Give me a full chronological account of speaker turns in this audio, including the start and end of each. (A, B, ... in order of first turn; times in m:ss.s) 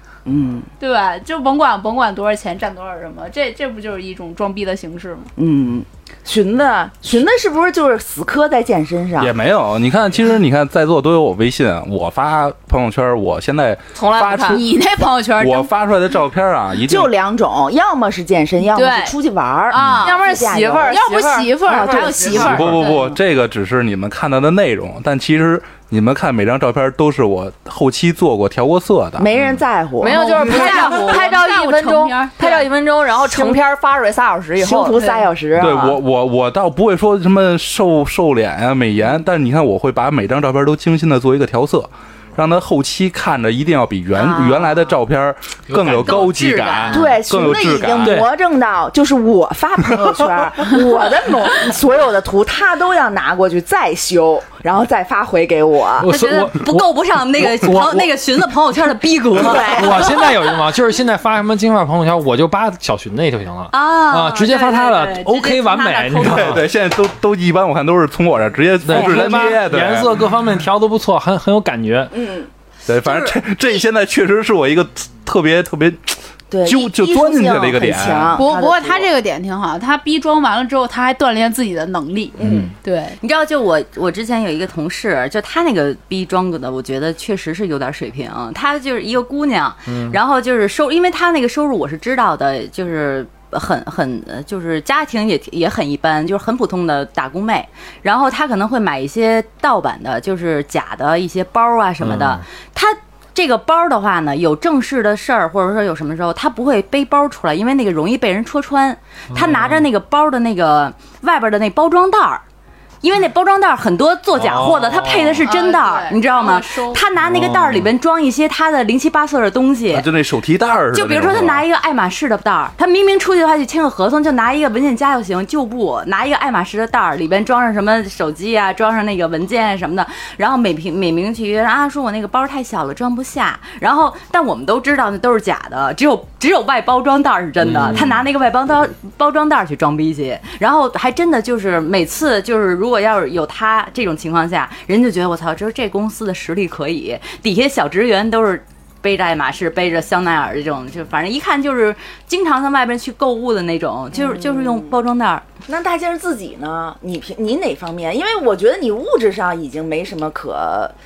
0:00.2-0:00.7 A
0:00.8-0:05.3 B
0:05.4-0:09.3 A
0:09.2-0:14.6 C
0:13.9-0:14.6 D
0:14.4-0:15.7 B
0:15.4-0:17.1 C
0:16.8-0:21.0 A
0:18.7-0:19.1 B
0:19.7-0:20.2 B
0:20.0-0:22.6 D
0:20.9-0:23.1 B
0:21.6-0:22.5 A
0:22.3-0:29.3 C
0:29.2-0:31.0 A
0:30.0-0:35.1 D
0:30.0-0:32.6 B
0:34.6-0:36.0 A
0:35.0-0:35.2 B
0:35.6-0:48.2 C
0:44.2-0:44.8 E
0:45.7-0:46.2 F
0:45.8-0:47.1 E
0:46.9-0:56.1 A
0:56.0-0:58.3 F
0:56.0-1:00.2 E
0:59.4-1:00.3 A
0:59.5-1:06.6 F
1:03.7-1:06.6 E
1:06.2-1:10.2 C
1:08.8-1:12.1 F
1:09.0-1:09.4 A
1:12.1-1:12.5 A
1:12.9-1:18.4 C
1:13.0-1:13.4 E
1:16.5-1:19.1 A
1:18.3-1:23.2 B
1:22.4-1:22.7 A
1:23.2-1:52.4 E
1:29.9-1:30.2 F
1:42.0-1:42.4 F
1:49.3-1:49.8 F
1:53.0-2:00.1 E
1:54.3-1:55.4 F
1:55.4-1:57.0 B
1:57.2-1:57.9 F
1:59.9-2:01.6 C
2:00.9-2:35.4 E
2:17.6-2:18.1 F
2:34.1-2:35.0 A
2:35.6-2:40.9 A